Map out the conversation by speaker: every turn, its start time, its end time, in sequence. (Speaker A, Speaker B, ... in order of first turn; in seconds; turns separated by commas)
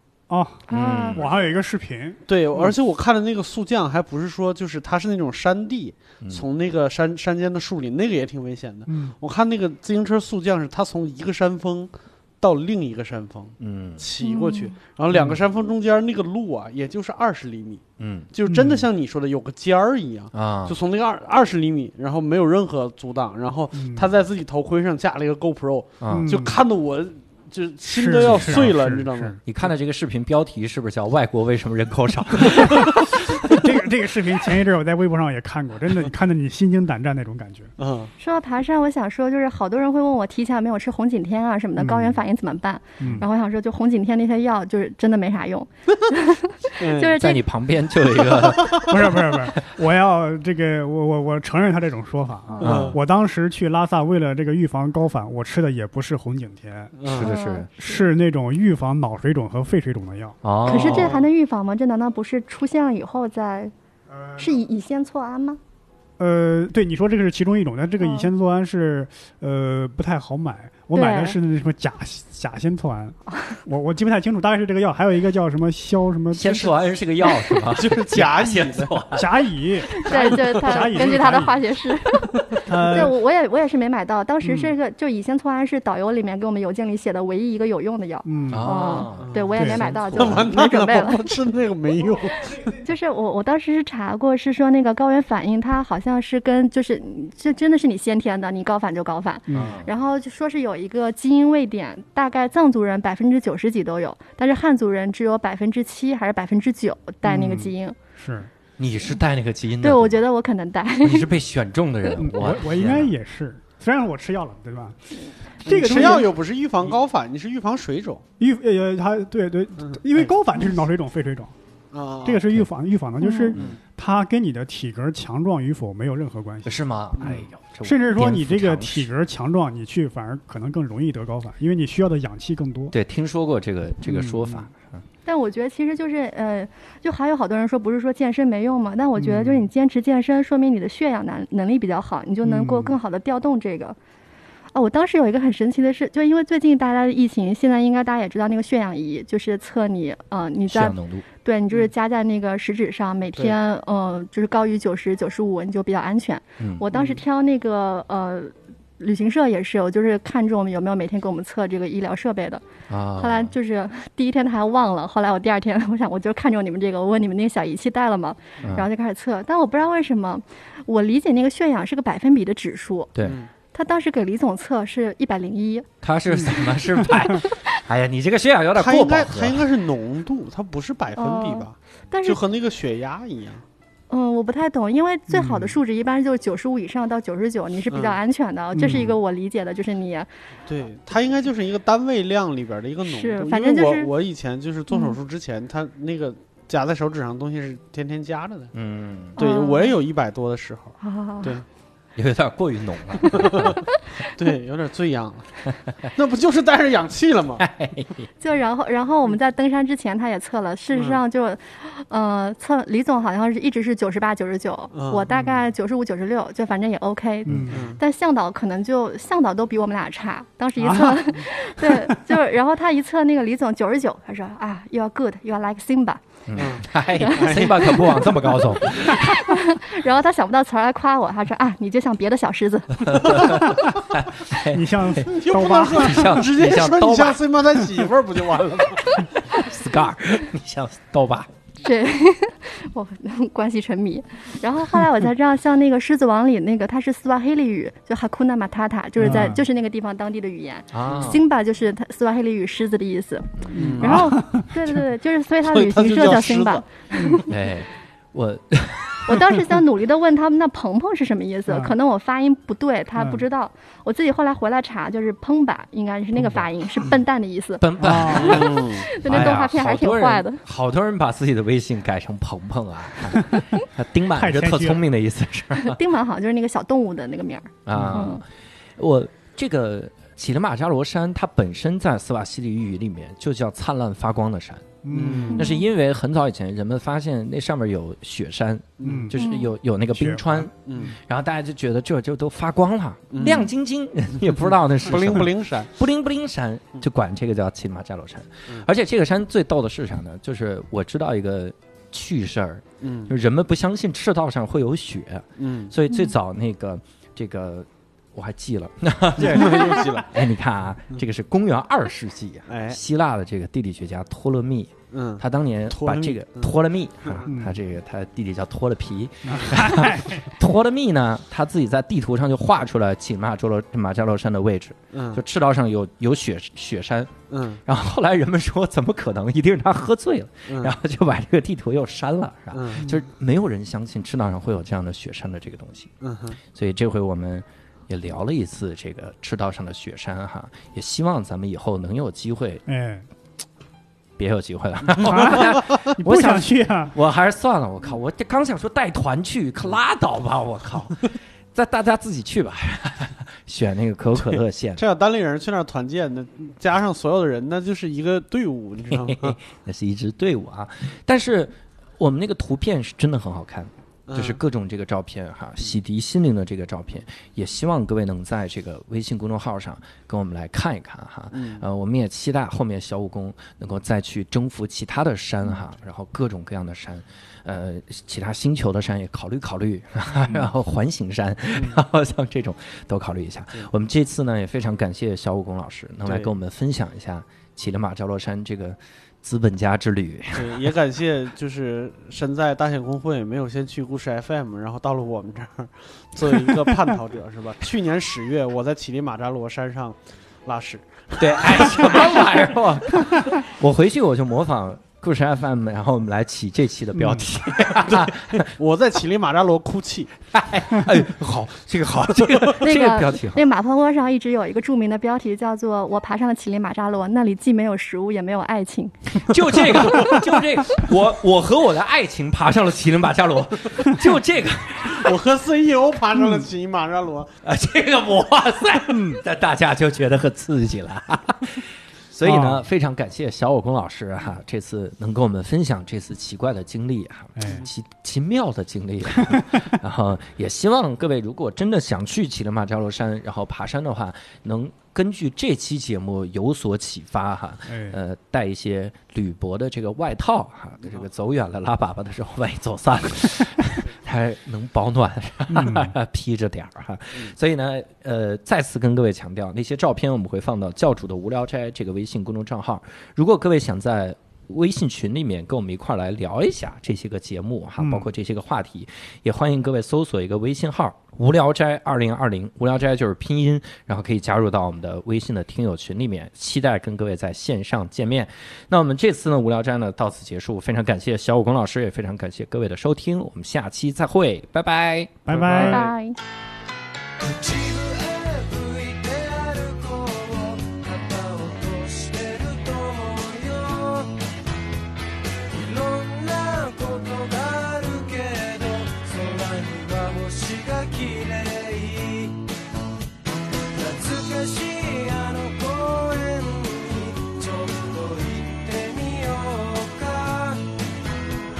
Speaker A: 0.3-2.7, Speaker B: 0.7-1.2, Speaker C: 0.7-1.3, Speaker D: 2.3-29.4, Speaker A: 8.9-9.1, Speaker C: 13.6-14.1, Speaker B: 14.2-14.7, Speaker A: 15.1-15.4, Speaker C: 18.0-18.3, Speaker A: 18.5-18.9, Speaker C: 20.3-20.8, Speaker A: 23.7-24.1, Speaker C: 26.0-26.3, Speaker A: 26.1-26.6, Speaker A: 27.9-29.4, Speaker C: 28.3-28.5, Speaker C: 29.4-33.7, Speaker A: 32.7-37.7, Speaker D: 37.8-38.1, Speaker B: 38.2-47.4, Speaker A: 41.8-42.2, Speaker A: 43.0-43.2, Speaker D: 46.8-47.2, Speaker C: 47.2-49.5, Speaker D: 48.3-48.8, Speaker A: 48.8-57.0, Speaker B: 52.5-52.9, Speaker D: 52.6-53.0, Speaker C: 52.6-53.0, Speaker D: 57.0-57.3, Speaker C: 57.1-57.7, Speaker B: 57.2-58.1, Speaker A: 57.8-60.4, Speaker C: 60.4-61.2, Speaker B: 60.6-63.7, Speaker D: 60.7-61.2, Speaker A: 64.1-64.6, Speaker B: 64.4-65.6, Speaker A: 66.2-76.7, Speaker B: 68.0-68.3, Speaker B: 70.9-71.4, Speaker B: 73.3-73.6, Speaker C: 76.3-79.5, Speaker D: 77.7-79.0, Speaker A: 79.1-81.6, Speaker B: 79.9-91.3, Speaker D: 80.3-80.9, Speaker D: 82.3-82.9, Speaker A: 82.7-83.1, Speaker A: 84.4-84.7, Speaker A: 88.2-88.7, Speaker C: 88.5-90.5, Speaker D: 89.2-92.7, Speaker A: 89.5-89.8, Speaker B: 92.5-108.0, Speaker A: 99.5-99.8, Speaker C: 99.5-99.9, Speaker A: 107.2-108.5, Speaker C: 108.8-110.2, Speaker B: 109.8-111.3, Speaker C: 111.0-113.1, Speaker A: 112.2-116.3, Speaker D: 115.6-118.2, Speaker A: 118.4-121.5, Speaker D: 119.8-120.3, Speaker D: 121.9-122.5, Speaker A: 122.2-132.9, Speaker B: 123.2-123.5, Speaker C: 126.6-129.1, Speaker C: 132.9-135.0, Speaker A: 134.0-134.6, Speaker B: 135.2-143.9, Speaker A: 139.2-139.7, Speaker A: 142.4-142.9, Speaker B: 144.7-162.6, Speaker C: 150.7-151.2, Speaker D: 156.9-157.2, Speaker C: 162.9-163.5, Speaker B: 163.2-173.1, Speaker C: 168.6-168.9, Speaker D: 173.2-173.5, Speaker B: 173.7-175.9, Speaker C: 176.0-179.7, Speaker D: 178.7-183.6, Speaker B: 181.1-182.4, Speaker B: 184.1-190.3, Speaker A: 185.3-185.8, Speaker D: 187.9-188.2, Speaker A: 188.7-189.1, Speaker D: 190.7-198.7, Speaker B: 193.0-194.1, Speaker B: 194.9-195.1, Speaker C: 198.7-199.4, Speaker D: 199.3-201.6, Speaker B: 199.4-200.0, Speaker B: 201.0-201.5, Speaker C: 202.2-203.8, Speaker D: 203.4-203.8, Speaker D: 204.3-207.7, Speaker C: 207.6-208.3, Speaker B: 208.4-226.3, Speaker D: 214.9-215.3, Speaker A: 217.4-217.8, Speaker C: 217.5-217.8, Speaker D: 217.7-218.0, Speaker A: 220.8-222.1, Speaker C: 226.5-229.4, Speaker D: 226.6-228.6, Speaker B: 226.9-233.7, Speaker C: 233.0-237.4, Speaker A: 234.5-236.4, Speaker D: 235.2-239.3, Speaker C: 239.1-241.5, Speaker B: 241.8-257.5, Speaker A: 249.2-249.6, Speaker C: 250.9-251.4, Speaker C: 253.6-254.3, Speaker D: 253.7-254.4, Speaker A: 253.7-254.7, Speaker D: 255.6-256.8, Speaker C: 257.5-259.5, Speaker B: 259.2-270.6, Speaker A: 263.2-263.4, Speaker C: 267.8-276.0, Speaker A: 268.0-268.7, Speaker D: 268.3-269.1, Speaker A: 274.3-275.0, Speaker B: 275.7-278.4, Speaker C: 277.9-278.4, Speaker C: 279.0-327.3, Speaker A: 285.0-285.6, Speaker D: 285.1-285.6, Speaker B: 285.5-285.9, Speaker D: 289.0-289.3, Speaker A: 289.0-289.4, Speaker B: 289.3-289.7, Speaker A: 290.1-291.1, Speaker D: 290.8-291.1, Speaker D: 293.3-293.7, Speaker D: 295.0-295.9, Speaker D: 303.0-303.3, Speaker D: 305.6-305.9, Speaker D: 309.4-310.4, Speaker D: 312.7-313.0, Speaker D: 315.1-317.5, Speaker A: 317.5-317.8, Speaker A: 319.4-320.5, Speaker D: 325.1-325.4, Speaker D: 327.5-327.8, Speaker C: 327.9-336.1, Speaker D: 330.7-330.9, Speaker D: 332.7-333.2, Speaker D: 336.2-336.6, Speaker C: 336.7-342.8, Speaker A: 342.9-343.3, Speaker C: 344.4-355.0, Speaker A: 345.1-347.1, Speaker D: 354.4-359.6, Speaker C: 359.1-390.9, Speaker D: 364.3-364.6, Speaker D: 371.5-371.8, Speaker D: 386.2-386.5, Speaker D: 390.5-402.3, Speaker C: 401.4-408.7, Speaker A: 407.1-407.5, Speaker D: 408.1-410.3, Speaker C: 410.5-413.6, Speaker B: 412.8-419.9, Speaker C: 419.3-425.4, Speaker D: 425.1-427.5, Speaker A: 426.4-426.6, Speaker C: 427.6-486.1, Speaker A: 429.1-429.4, Speaker A: 432.4-432.8, Speaker A: 437.6-437.9, Speaker A: 447.9-448.2, Speaker A: 455.7-456.1, Speaker A: 468.0-468.3, Speaker A: 485.4-486.1, Speaker D: 485.5-486.0, Speaker B: 485.7-486.4, Speaker E: 487.4-494.4, Speaker E: 495.7-502.7, Speaker E: 503.9-510.9